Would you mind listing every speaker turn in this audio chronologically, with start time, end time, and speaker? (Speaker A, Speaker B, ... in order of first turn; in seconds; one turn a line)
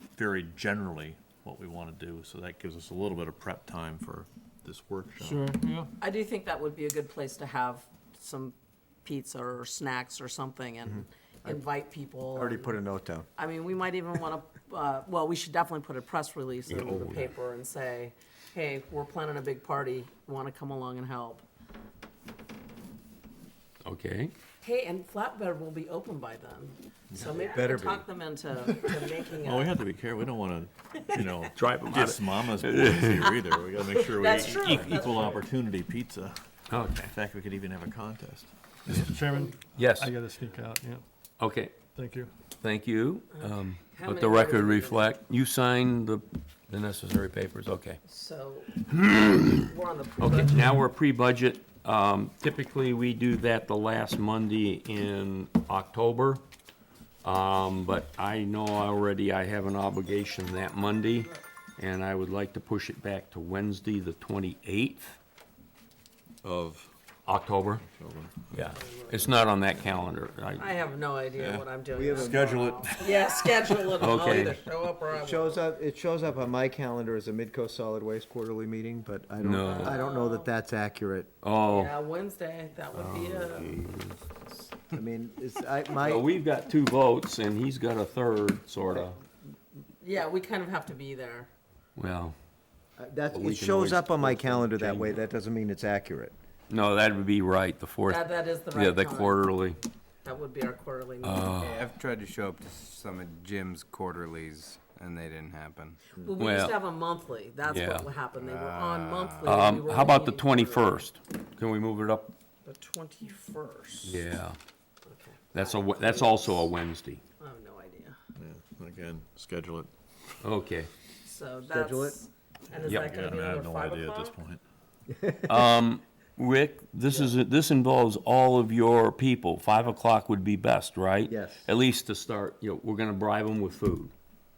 Speaker A: 0.1-5.5
Speaker B: 5.2-5.9
Speaker C: 6.0-12.8
Speaker D: 10.9-11.7
Speaker D: 12.3-13.3
Speaker C: 13.4-21.4
Speaker E: 16.7-17.3
Speaker E: 23.8-24.3
Speaker C: 24.6-29.7
Speaker D: 27.1-28.0
Speaker A: 29.4-36.5
Speaker E: 31.5-33.3
Speaker C: 33.2-35.4
Speaker E: 34.5-35.2
Speaker E: 36.7-37.1
Speaker A: 37.0-38.5
Speaker B: 38.9-41.0
Speaker E: 39.8-40.1
Speaker E: 41.4-41.7
Speaker B: 42.0-42.3
Speaker E: 42.6-48.0
Speaker C: 43.3-45.0
Speaker C: 48.1-50.6
Speaker E: 48.9-49.7
Speaker E: 50.2-56.4
Speaker E: 57.2-65.2
Speaker A: 66.4-66.9
Speaker E: 67.3-67.8
Speaker A: 67.9-68.5
Speaker E: 68.5-70.7
Speaker C: 68.7-69.5
Speaker C: 70.6-75.6
Speaker A: 71.4-74.0
Speaker D: 72.0-72.5
Speaker E: 74.0-74.6
Speaker D: 75.1-81.3
Speaker E: 79.4-80.0
Speaker C: 79.6-80.5
Speaker E: 81.4-82.0
Speaker C: 81.7-83.8
Speaker E: 82.9-84.2
Speaker D: 84.9-86.3
Speaker E: 86.0-89.2
Speaker C: 90.0-91.5
Speaker E: 92.0-92.3
Speaker D: 93.0-96.3
Speaker E: 93.3-95.2
Speaker E: 96.7-99.8
Speaker C: 98.1-99.4
Speaker C: 100.2-101.6
Speaker E: 101.2-101.8
Speaker F: 101.6-106.0
Speaker C: 106.2-111.0
Speaker E: 106.4-106.8
Speaker E: 107.7-108.1
Speaker F: 108.4-109.6
Speaker E: 109.4-112.3
Speaker C: 112.6-114.2
Speaker E: 114.0-114.6
Speaker C: 115.0-116.6
Speaker E: 115.5-117.2
Speaker C: 117.4-118.2
Speaker A: 118.4-119.9
Speaker E: 120.4-120.9
Speaker C: 121.2-124.4
Speaker D: 121.6-122.2
Speaker A: 122.7-124.6
Speaker E: 122.9-123.2
Speaker D: 125.1-125.5
Speaker E: 125.5-134.1
Speaker D: 131.3-131.7